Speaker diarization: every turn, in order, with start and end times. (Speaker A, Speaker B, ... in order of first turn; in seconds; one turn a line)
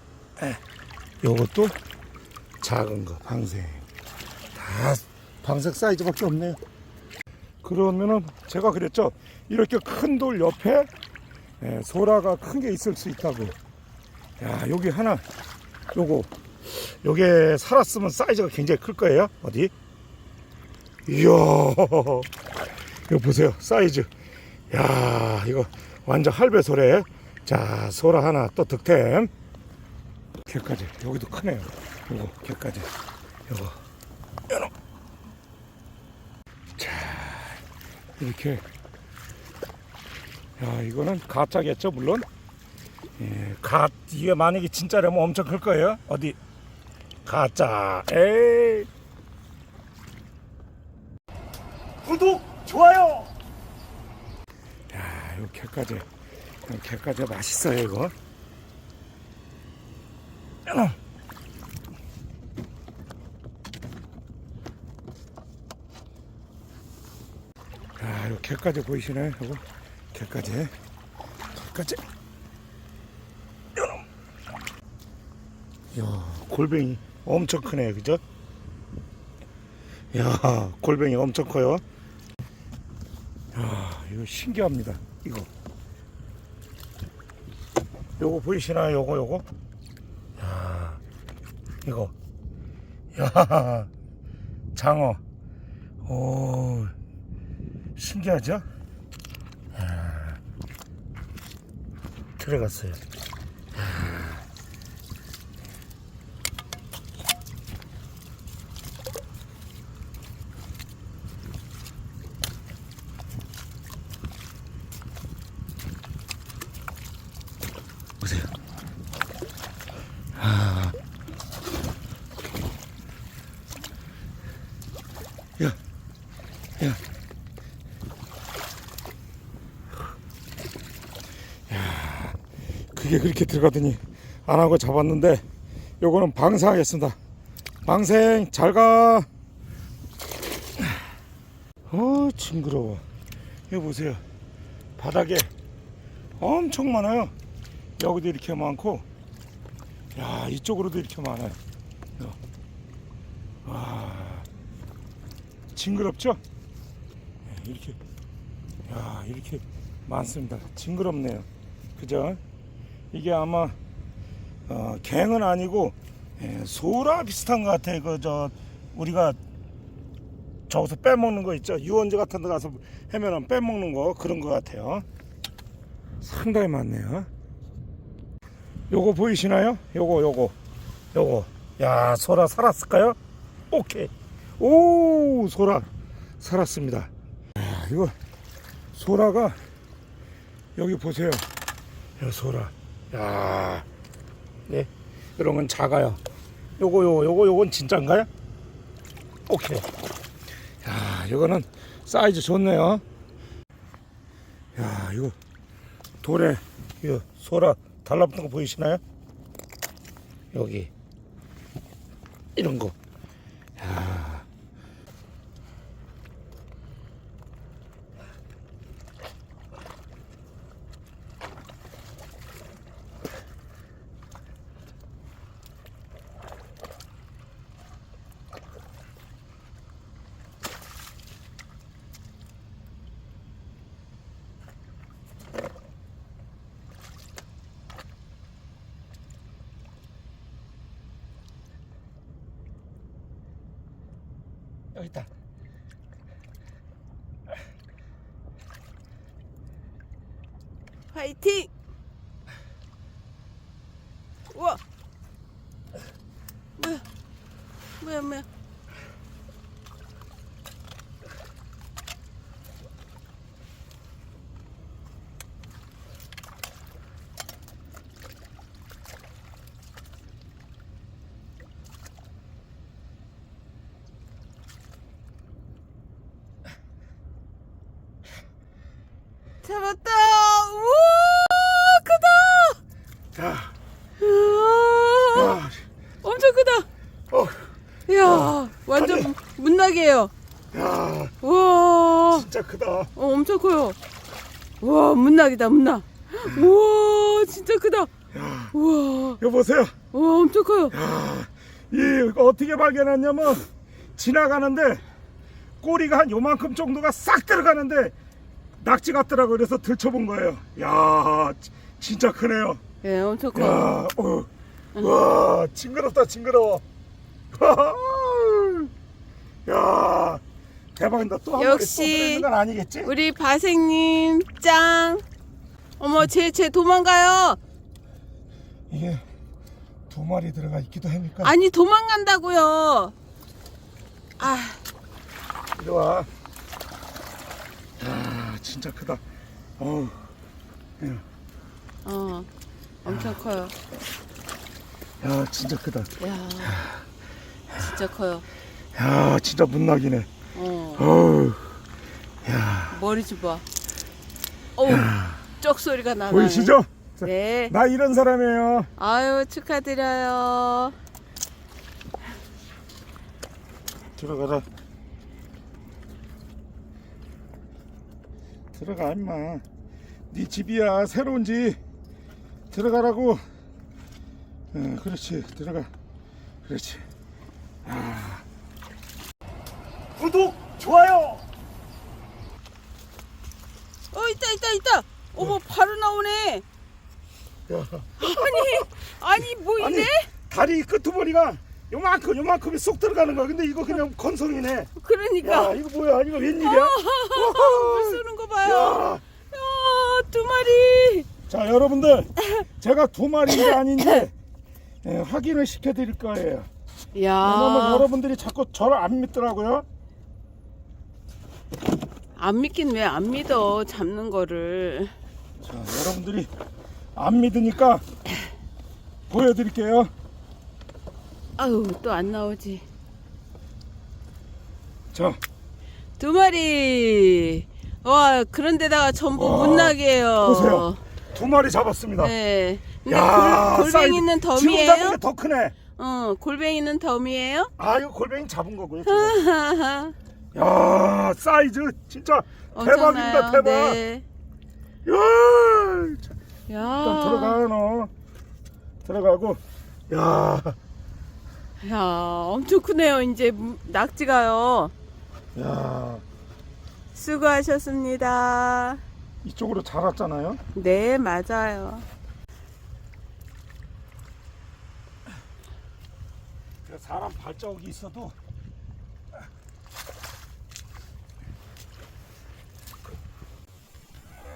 Speaker A: 1.2-1.8
Speaker A: 2.6-3.8
Speaker A: 4.5-6.6
Speaker A: 7.6-10.9
Speaker A: 11.6-13.6
Speaker A: 14.4-15.2
Speaker A: 15.9-19.7
Speaker A: 21.1-22.3
Speaker A: 23.1-24.1
Speaker A: 24.7-29.3
Speaker A: 30.4-32.9
Speaker A: 33.5-33.8
Speaker A: 36.8-37.6
Speaker A: 38.2-38.6
Speaker A: 40.6-42.3
Speaker A: 43.2-46.4
Speaker A: 47.2-48.9
Speaker A: 52.0-53.3
Speaker A: 54.9-56.1
Speaker A: 56.6-58.1
Speaker A: 60.7-61.0
Speaker A: 68.0-70.7
Speaker A: 71.5-72.0
Speaker A: 73.8-74.0
Speaker A: 75.9-78.2
Speaker A: 80.1-81.8
Speaker A: 83.5-85.5
Speaker A: 88.2-89.5
Speaker A: 90.4-91.0
Speaker A: 91.8-92.1
Speaker A: 93.1-93.9
Speaker A: 94.8-95.2
Speaker A: 96.0-97.0
Speaker A: 98.0-98.7
Speaker A: 99.7-100.4
Speaker A: 102.4-103.0
Speaker A: 103.7-104.4
Speaker A: 118.2-118.5
Speaker A: 120.4-121.0
Speaker A: 131.7-132.4
Speaker A: 132.9-135.4
Speaker A: 136.0-137.2
Speaker A: 137.8-139.3
Speaker A: 140.8-141.0
Speaker A: 141.9-143.0
Speaker A: 143.7-144.2
Speaker A: 145.0-145.5
Speaker A: 146.4-147.3
Speaker A: 148.0-149.1
Speaker A: 150.1-151.6
Speaker A: 153.7-154.5
Speaker A: 155.8-156.4
Speaker A: 157.4-158.0
Speaker A: 158.9-162.4
Speaker A: 163.1-163.8
Speaker A: 164.7-169.4
Speaker A: 170.7-175.1
Speaker A: 176.2-177.3
Speaker A: 178.9-180.6
Speaker A: 181.1-183.2
Speaker A: 183.7-185.9
Speaker A: 186.4-188.2
Speaker A: 188.9-189.6
Speaker A: 190.8-191.4
Speaker A: 192.2-193.9
Speaker A: 194.7-196.2
Speaker A: 196.8-198.3
Speaker A: 199.5-199.9
Speaker A: 200.8-203.0
Speaker A: 204.8-205.4
Speaker A: 206.2-209.0
Speaker A: 210.5-210.9
Speaker A: 212.6-213.0
Speaker A: 213.8-214.5
Speaker A: 244.9-245.3
Speaker B: 251.1-251.7
Speaker B: 254.5-254.8
Speaker B: 256.8-257.1
Speaker B: 258.0-258.5
Speaker B: 279.6-282.8
Speaker A: 283.3-283.8
Speaker B: 284.2-285.6
Speaker A: 285.3-285.9
Speaker B: 286.2-286.9
Speaker A: 287.3-287.7
Speaker B: 288.1-290.3
Speaker A: 288.2-289.3
Speaker A: 290.7-291.3
Speaker B: 291.4-292.5
Speaker A: 292.3-293.1
Speaker B: 293.2-294.0
Speaker B: 294.8-298.1
Speaker A: 296.5-296.7
Speaker A: 298.3-298.7
Speaker B: 298.7-299.4
Speaker A: 299.4-299.9
Speaker B: 300.1-300.9
Speaker A: 300.9-305.0
Speaker A: 305.8-308.1
Speaker A: 308.8-312.8
Speaker B: 313.0-314.0
Speaker A: 313.5-316.9
Speaker A: 317.5-318.9
Speaker A: 319.6-320.4
Speaker A: 320.9-323.1
Speaker B: 321.6-322.5
Speaker B: 323.1-325.2
Speaker B: 326.0-327.6
Speaker A: 328.9-329.2
Speaker A: 330.1-331.5
Speaker B: 331.4-333.1
Speaker B: 334.4-334.8
Speaker A: 335.8-336.3
Speaker A: 338.0-339.2
Speaker A: 339.8-340.3
Speaker A: 341.0-341.2
Speaker B: 342.0-342.5
Speaker B: 343.0-343.7
Speaker A: 343.1-343.4
Speaker A: 345.2-347.1
Speaker B: 346.2-346.8
Speaker B: 347.8-348.4
Speaker A: 348.9-350.3
Speaker B: 350.6-351.1
Speaker A: 351.0-351.8
Speaker A: 352.4-352.9
Speaker B: 352.9-353.6
Speaker B: 354.8-357.7
Speaker A: 354.9-355.4
Speaker A: 356.3-358.9
Speaker B: 359.0-360.9
Speaker A: 364.2-364.7
Speaker A: 368.7-369.6
Speaker A: 370.3-371.8
Speaker A: 372.7-373.4
Speaker A: 374.7-375.9
Speaker A: 376.6-377.1
Speaker A: 377.8-378.4
Speaker A: 380.2-381.4
Speaker B: 384.1-386.6
Speaker A: 387.7-399.2
Speaker B: 388.2-390.3
Speaker B: 395.0-395.8
Speaker B: 396.6-401.3
Speaker A: 401.5-404.3
Speaker B: 403.5-404.2
Speaker A: 405.0-406.7
Speaker B: 407.1-408.1
Speaker A: 407.4-409.9
Speaker B: 412.4-415.1
Speaker A: 415.6-416.5
Speaker A: 417.1-418.0
Speaker A: 419.3-420.1
Speaker B: 421.6-422.9
Speaker A: 425.1-425.4
Speaker B: 426.2-431.0
Speaker A: 429.4-432.3
Speaker B: 432.2-435.2
Speaker A: 433.1-435.8
Speaker B: 436.0-437.7
Speaker A: 437.8-439.4
Speaker B: 439.1-440.1
Speaker A: 440.5-444.0
Speaker B: 442.8-444.2
Speaker A: 445.1-448.1
Speaker B: 446.7-447.6
Speaker A: 449.0-450.8
Speaker B: 451.8-454.9
Speaker A: 455.6-456.2
Speaker B: 457.1-459.0
Speaker A: 459.4-460.6
Speaker B: 460.8-462.1
Speaker A: 466.8-468.4